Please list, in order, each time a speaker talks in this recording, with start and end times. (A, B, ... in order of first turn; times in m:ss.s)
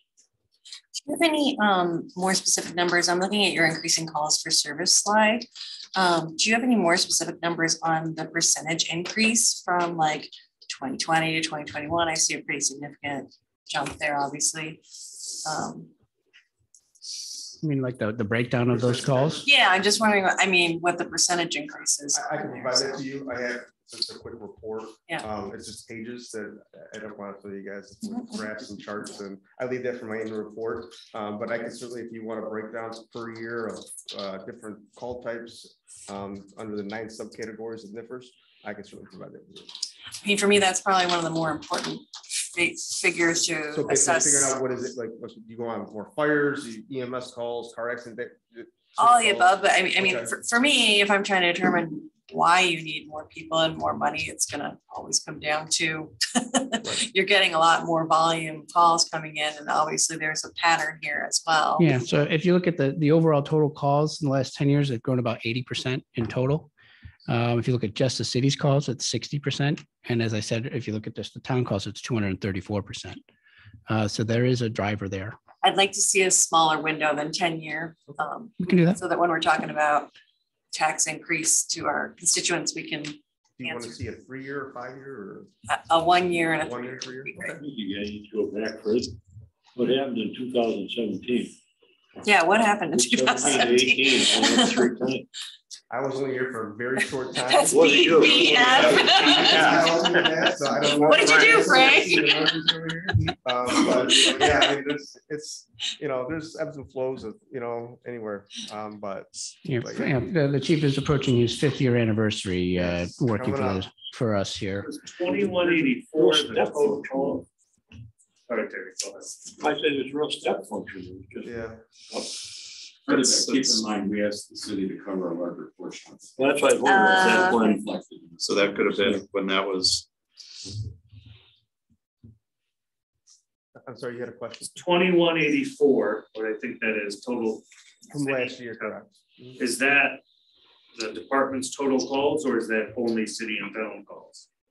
0:01.1-0:14.8 A
0:15.4-0:15.9 A
0:17.6-0:19.4 B
0:18.7-0:19.5 C
0:19.4-0:23.0 A
0:22.1-0:39.7 C
0:28.1-0:28.4 A
0:40.2-0:44.6 A
0:43.7-0:50.3 C
0:49.0-1:02.0 A
1:01.8-1:06.7 B
1:07.3-1:13.2 B
1:13.9-1:15.4 B
1:15.6-1:20.1 A
1:18.6-1:19.0 B
1:20.7-1:24.0 A
1:23.6-1:25.5 C
1:25.7-1:27.6 A
1:26.6-1:27.4 C
1:27.4-1:29.2 D
1:29.8-1:31.6 D
1:32.2-1:34.9 A
1:32.9-1:35.3 D
1:35.9-1:50.3 C
1:37.4-1:40.0 A
1:37.7-1:39.4 D
1:40.9-1:42.5 A
1:49.6-1:54.9 B
1:52.8-1:53.9 C
1:54.9-1:57.4 E
1:55.2-1:57.4 D
1:58.5-1:59.4 E
1:59.6-2:01.6 D
2:01.4-2:01.8 C
2:03.1-2:06.3 F
2:03.1-2:03.7 G
2:06.4-2:07.9 D
2:06.8-2:07.8 A
2:07.6-2:09.0 F
2:08.4-2:10.1 G
2:13.8-2:14.8 C
2:14.7-2:19.0 E
2:18.1-2:19.6 C
2:19.6-2:20.2 E
2:20.9-2:24.5 E